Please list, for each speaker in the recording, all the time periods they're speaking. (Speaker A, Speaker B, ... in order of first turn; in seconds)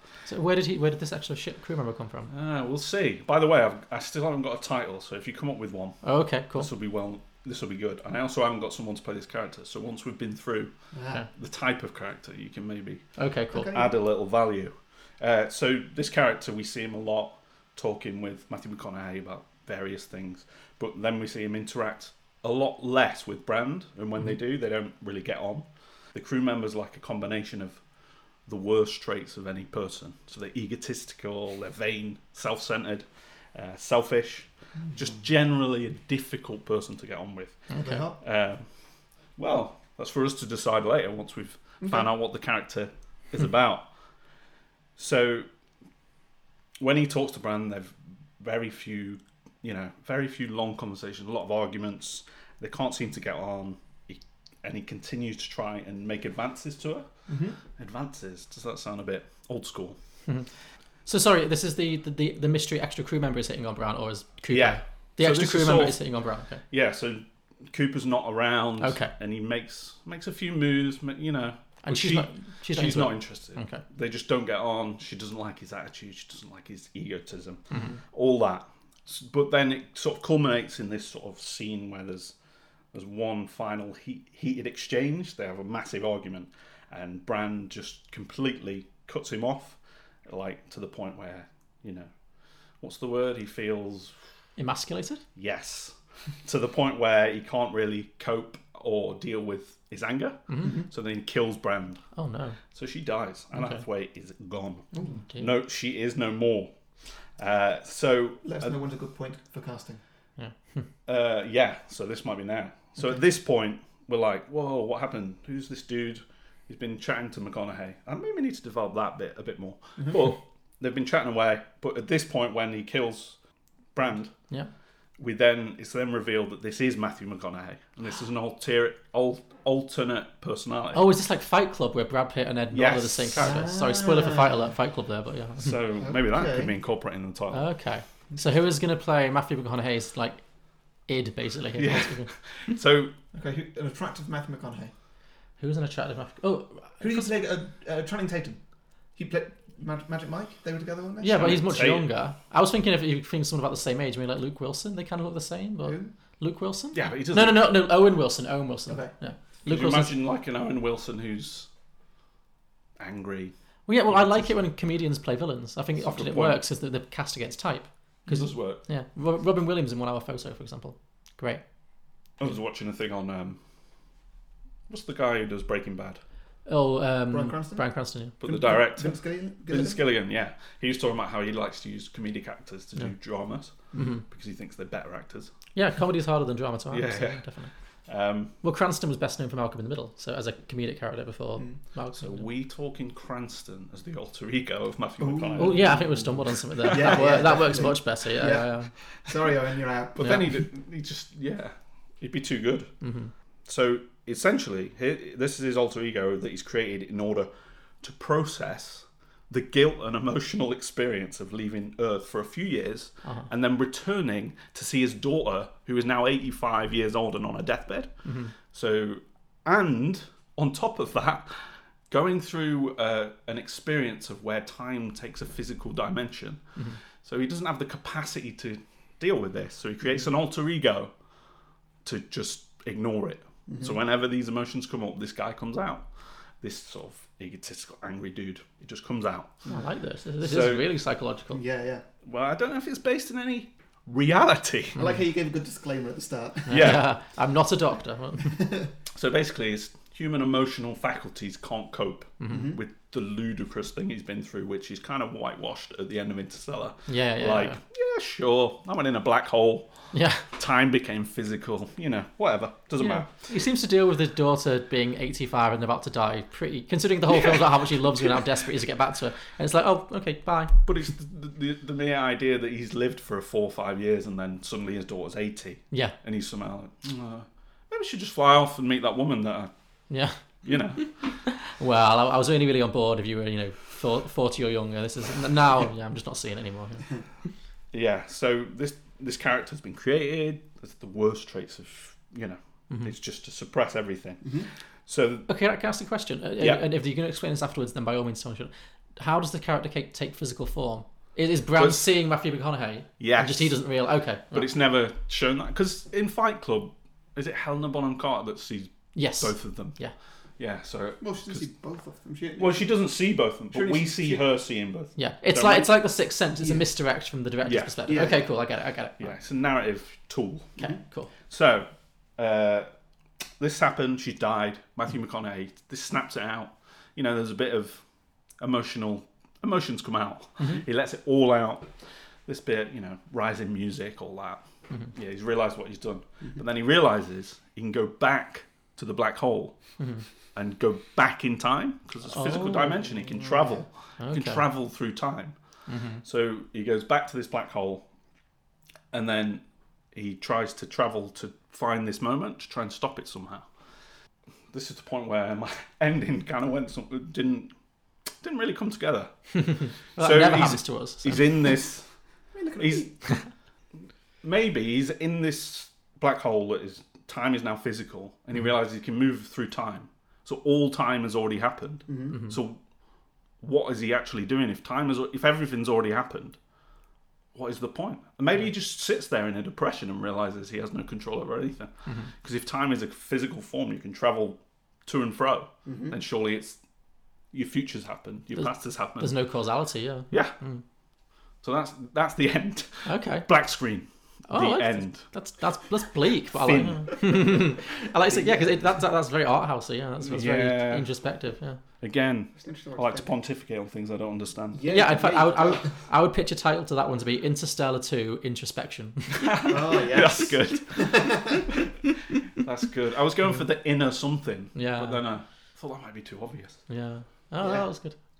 Speaker A: 0.3-2.3, 6.0-6.7, 13.2-13.7, 37.7-38.0, 61.0-66.6, 68.8-69.1, 71.8-73.8, 77.7-78.0, 94.6-95.2, 100.5-100.7, 102.1-102.6, 103.5-103.8, 105.2-105.5, 110.4-110.9, 130.9-135.8, 137.5-142.3, 145.6-147.3, 151.2-160.1, 163.9-171.6, 176.7-178.3, 183.9-184.2, 185.7-187.7, 188.6-192.4, 195.6-198.9, 200.2-200.4, 203.0-203.3, 213.2-213.5, 218.2-218.5, 239.7-241.6, 246.7-248.6, 252.4-252.7, 257.1-257.8, 260.1-260.4, 263.0-270.7, 280.1-280.4, 281.0-287.1, 295.5-304.7, 309.1-310.1, 315.1-319.3, 320.8-321.3, 340.0-340.2, 342.3-343.0, 344.2-344.6, 345.9-346.2, 359.5-361.5, 372.3-372.6, 382.1-382.3, 388.6-390.8, 393.1-393.5, 394.5-401.8, 404.9-409.7, 414.7-415.2, 416.9-418.1
Speaker B: 2.3-10.7, 11.3-13.1, 13.7-27.8, 28.4-37.7, 38.2-38.6, 39.4-43.9, 45.0-45.5, 46.8-57.0, 57.7-60.0, 64.5-66.0, 66.7-82.3, 82.9-92.1, 92.8-94.1, 95.3-102.0, 102.7-106.7, 107.4-108.7, 111.0-123.4, 123.9-124.3, 125.2-131.0, 132.7-133.6, 135.6-137.7, 141.8-143.1, 151.4-152.1, 156.9-157.7, 159.7-161.7, 163.0-163.5, 164.1-164.6, 166.0-166.6, 168.2-168.8, 172.4-173.6, 174.9-176.2, 178.4-183.7, 184.2-185.5, 186.9-187.4, 188.1-188.5, 192.2-197.6, 200.1-202.9, 203.7-207.5, 208.0-221.5, 222.1-226.6, 227.2-231.1, 232.0-236.1, 236.6-239.6, 240.4-240.8, 242.2-245.0, 246.7-247.0, 249.1-263.3, 270.9-279.7, 280.6-281.3, 287.9-295.5, 296.6-296.9, 301.8-302.1, 303.2-303.8, 304.5-310.0, 310.6-311.7, 312.6-315.9, 317.6-318.1, 319.2-320.8, 321.5-322.9, 323.6-328.0, 328.6-331.9, 332.4-334.6, 335.1-339.8, 340.5-345.5, 346.2-348.1, 349.1-353.6, 354.7-357.7, 358.4-359.3, 360.1-362.1, 362.8-363.1, 364.4-372.8, 373.6-376.6, 377.5-386.8, 387.5-389.4, 391.6-395.3, 396.5-397.2, 400.2-401.1, 402.0-404.8, 409.4-411.3, 412.6-416.8
Speaker C: 10.9-11.2, 13.5-13.9, 37.8-38.2, 41.8-42.1, 57.3-57.6, 100.6-100.9, 104.9-105.2, 108.4-110.0, 133.4-134.7, 136.0-136.7, 143.3-144.9, 147.0-151.6, 155.8-156.1, 158.9-159.1, 177.3-180.0, 195.2-200.3, 233.7-234.0, 241.5-242.0, 244.9-247.0, 248.5-248.9, 252.5-252.8, 294.4-294.7, 311.2-312.9, 313.7-314.5, 318.1-318.5, 342.4-343.8, 362.5-363.1, 372.1-372.4, 385.9-386.2, 398.2-398.9, 402.6-403.3, 404.7-406.0, 409.6-411.7, 417.6-417.9